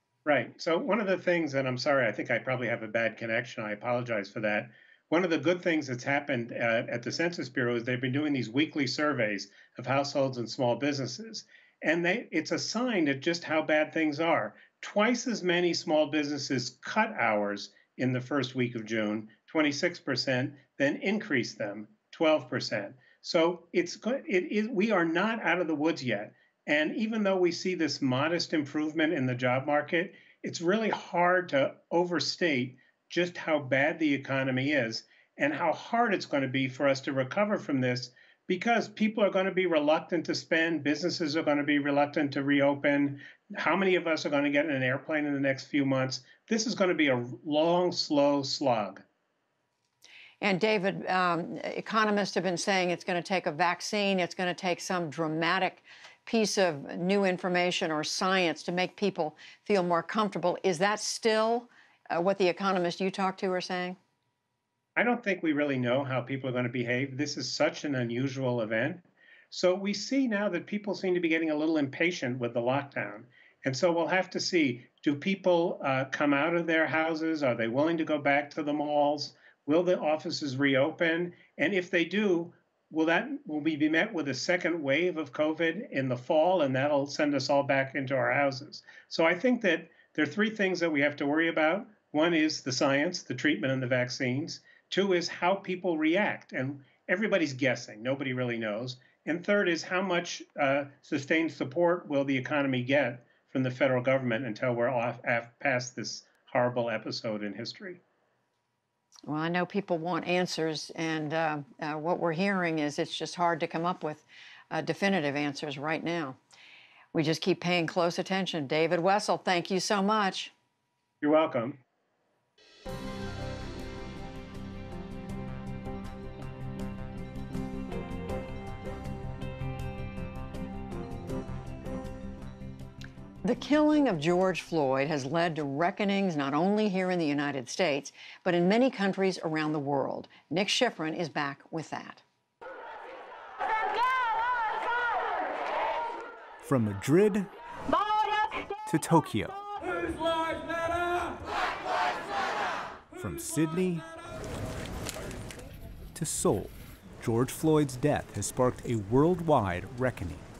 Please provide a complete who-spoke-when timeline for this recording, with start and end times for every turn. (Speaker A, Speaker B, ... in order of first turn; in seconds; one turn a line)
Speaker A: 0.2-49.0
Speaker B: 50.4-64.0
Speaker A: 65.0-108.0
Speaker B: 109.3-116.4
Speaker B: 117.1-120.5
Speaker A: 121.2-121.8
Speaker B: 133.4-142.2
Speaker C: 146.6-147.5
Speaker C: 148.9-149.6
Speaker C: 153.2-154.1
Speaker C: 156.2-160.5